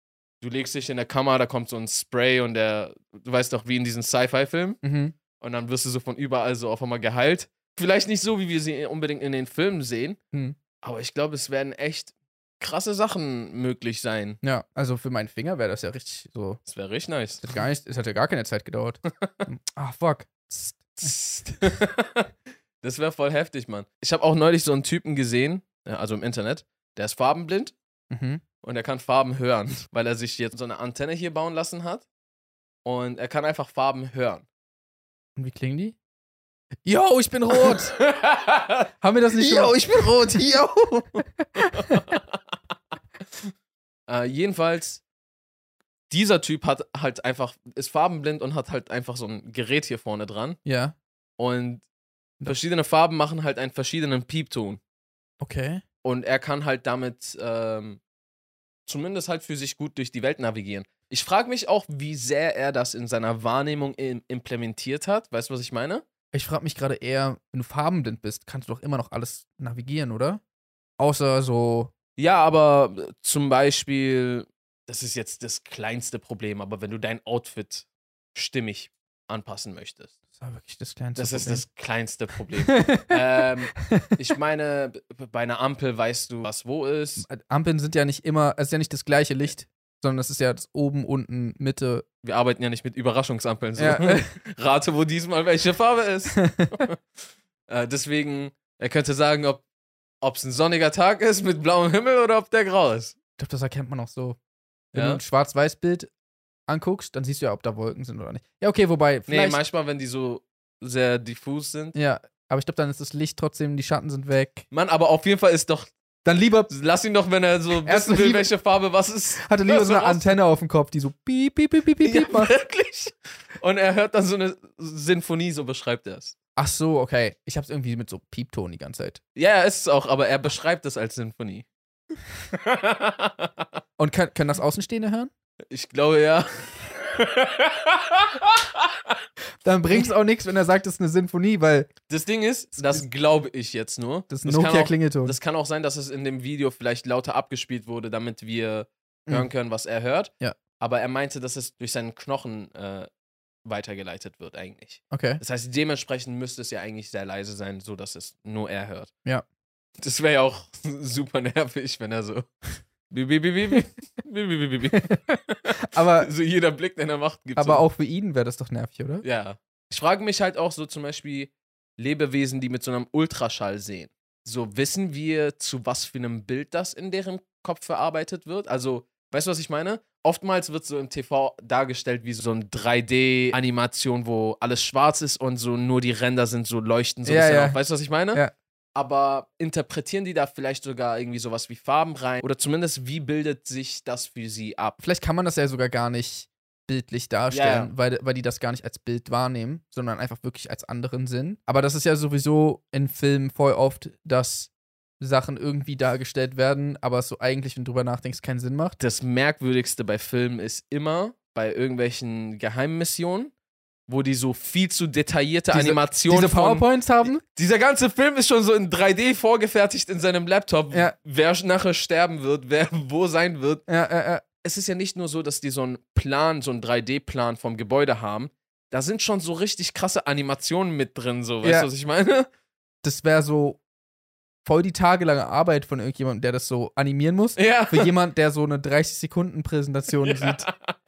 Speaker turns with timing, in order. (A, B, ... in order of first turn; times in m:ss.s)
0:00.4-0:04.8 A
0:04.8-0:05.1 B
0:05.4-0:10.2 A
0:10.8-0:14.4 A
0:14.4-0:16.6 B
0:16.6-0:17.4 A
0:17.4-0:21.6 B
0:21.0-0:22.3 A
0:22.8-0:27.7 A
0:28.1-0:28.4 B
0:28.6-0:32.0 A
0:32.8-0:34.4 A
0:35.4-0:36.0 B
0:36.8-0:38.0 B
0:37.6-0:41.0 A
0:39.0-0:42.0 B
0:41.6-0:42.4 A
0:44.1-0:45.0 A
0:46.1-0:50.6 A
0:50.6-0:51.0 B
0:51.4-0:51.8 A
0:52.4-0:54.8 A
0:55.4-0:55.8 B
0:56.0-0:58.0 A
0:58.8-1:06.0 A
1:06.3-1:10.4 B
1:11.0-1:11.9 B
1:12.2-1:20.1 A
1:20.3-1:21.6 B
1:21.2-1:27.3 A
1:22.7-1:23.1 B
1:27.2-1:32.0 B
1:32.2-1:37.0 A
1:33.8-1:34.3 B
1:36.4-1:36.7 B
1:37.7-1:39.6 A
1:40.2-1:43.1 A
1:43.4-1:44.4 B
1:44.9-1:45.2 A
1:44.9-1:46.1 B
1:46.7-1:49.6 B
1:49.3-1:52.0 A
1:51.9-1:54.6 B
1:54.7-1:55.9 A
1:56.2-1:56.7 B
1:56.7-2:00.4 A
1:57.8-1:58.5 B
1:59.4-2:02.5 B
2:02.0-2:06.3 A
2:06.6-2:09.2 B
2:09.3-2:11.7 A
2:12.5-2:13.6 A
2:14.0-2:15.3 B
2:15.7-2:19.2 A
2:19.6-2:21.9 B
2:22.1-2:33.1 A
2:22.8-2:23.0 B
2:24.3-2:25.4 B
2:33.6-2:39.1 A
2:35.1-2:35.4 B
2:40.0-2:47.8 A
2:45.8-2:46.3 B
2:47.6-2:49.2 B
2:49.2-3:08.4 A
3:07.2-3:07.8 B
3:09.0-3:15.0 A
3:15.0-3:29.0 B
3:17.5-3:17.9 A
3:29.0-3:33.5 A
3:34.1-3:43.8 A
3:35.7-3:37.4 B
3:43.9-3:44.4 B
3:44.6-3:52.5 A
3:51.6-3:51.9 B
3:53.0-3:53.8 B
3:54.6-4:00.7 B
3:57.6-3:58.1 A
4:00.2-4:00.9 A